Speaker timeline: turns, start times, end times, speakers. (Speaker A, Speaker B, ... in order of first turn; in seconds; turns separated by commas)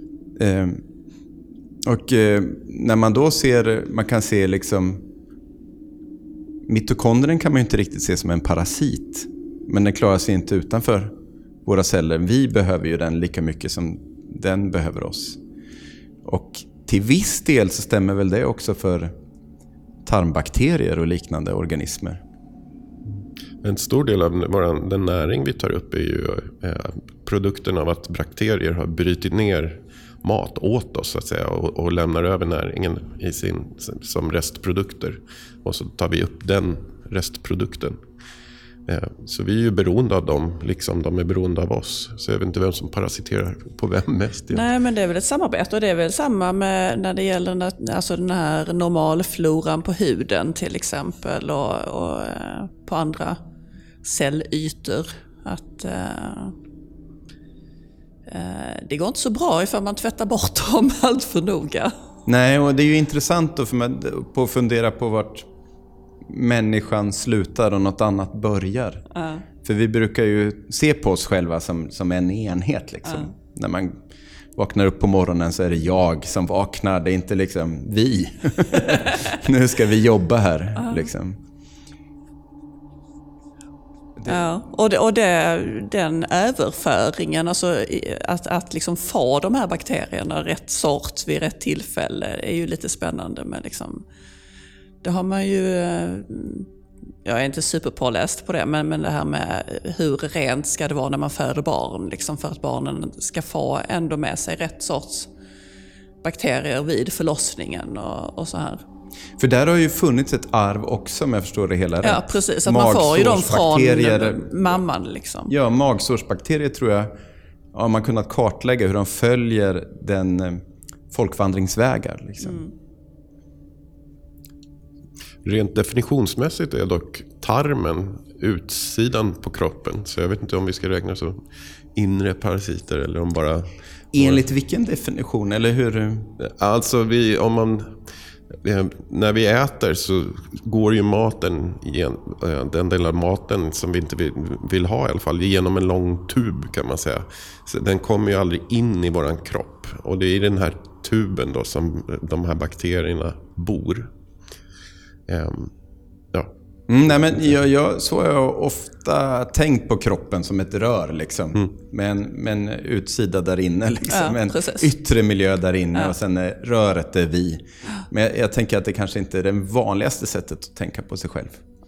Speaker A: 0.4-0.8, Speaker A: 1.9-5.1, Speaker A: 6.7-11.1, Speaker A: 11.7-15.4, Speaker A: 16.2-19.1, Speaker A: 20.1-22.2, Speaker B: 23.6-38.0, Speaker B: 38.9-44.7, Speaker C: 44.5-53.4, Speaker C: 54.0-56.6, Speaker C: 58.3-61.9, Speaker A: 62.3-65.5, Speaker A: 66.3-69.0, Speaker C: 69.1-69.5, Speaker A: 69.6-74.0, Speaker A: 74.5-81.4, Speaker C: 78.8-79.2, Speaker C: 80.8-81.1, Speaker A: 84.2-84.4, Speaker C: 84.3-94.0, Speaker C: 95.0-96.7, Speaker C: 97.2-105.3, Speaker C: 106.2-108.8, Speaker A: 109.4-114.5, Speaker C: 112.0-115.5, Speaker A: 115.5-117.2, Speaker A: 117.7-122.6, Speaker C: 122.4-122.7, Speaker B: 125.5-131.4, Speaker B: 131.9-134.5, Speaker A: 134.1-136.3, Speaker B: 136.4-137.9, Speaker B: 138.6-154.1, Speaker B: 155.3-155.7, Speaker A: 156.9-171.6, Speaker B: 157.1-157.5, Speaker C: 164.1-164.9